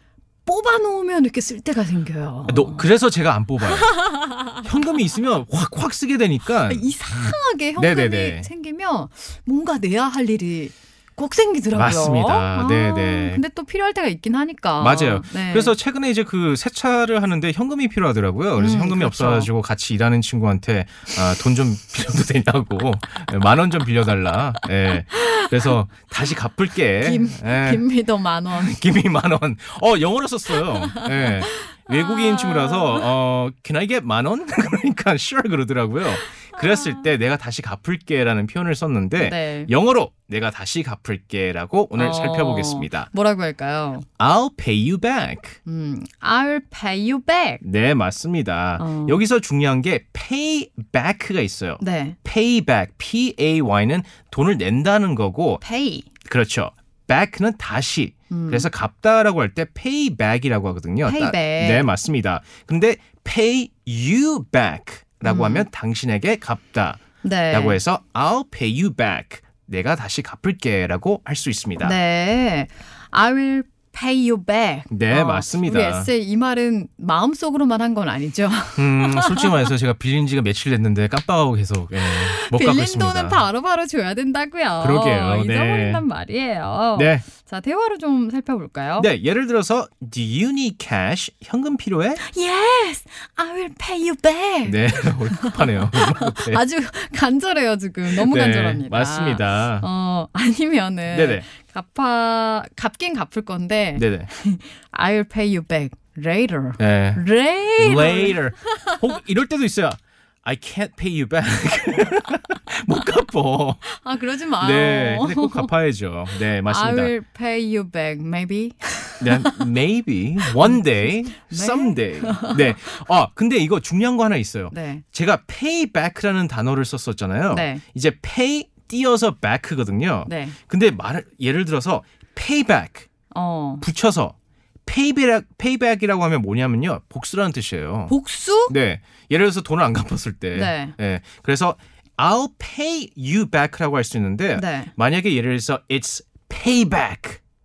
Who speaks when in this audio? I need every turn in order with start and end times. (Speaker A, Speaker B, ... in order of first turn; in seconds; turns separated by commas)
Speaker A: 0.5-2.8, Speaker B: 2.5-4.0, Speaker A: 3.7-4.6, Speaker B: 4.5-8.5, Speaker A: 6.7-15.7, Speaker B: 11.7-13.4, Speaker B: 14.8-27.8, Speaker A: 18.6-19.5, Speaker A: 25.1-25.7, Speaker A: 27.0-28.7, Speaker B: 28.5-43.1, Speaker A: 30.6-33.1, Speaker A: 36.6-36.9, Speaker A: 39.2-39.7, Speaker A: 42.0-44.0, Speaker B: 44.2-45.6, Speaker A: 45.6-47.6, Speaker B: 47.6-55.6, Speaker A: 48.8-49.2, Speaker A: 51.8-52.1, Speaker A: 55.6-56.1, Speaker B: 56.3-72.0, Speaker A: 58.3-58.6, Speaker A: 61.0-61.9, Speaker A: 65.2-65.7, Speaker A: 67.2-67.8, Speaker A: 71.8-79.6, Speaker B: 74.9-76.1, Speaker B: 78.8-83.4, Speaker A: 82.1-89.1, Speaker B: 84.8-86.0, Speaker B: 87.0-87.2, Speaker B: 89.0-92.2, Speaker A: 92.2-109.0, Speaker B: 94.6-96.6, Speaker B: 98.1-99.8, Speaker B: 101.1-101.4, Speaker B: 104.0-104.3, Speaker B: 106.8-107.2, Speaker B: 107.8-113.8, Speaker A: 113.9-115.7, Speaker B: 114.6-117.1, Speaker A: 116.6-119.7, Speaker B: 119.2-133.1, Speaker A: 120.5-122.7, Speaker A: 124.7-125.0, Speaker A: 127.5-127.8, Speaker A: 130.3-130.6, Speaker A: 133.3-133.8, Speaker B: 133.8-134.3, Speaker B: 134.8-138.1, Speaker A: 138.1-138.7, Speaker B: 138.7-147.4, Speaker A: 140.5-140.9, Speaker A: 144.6-144.9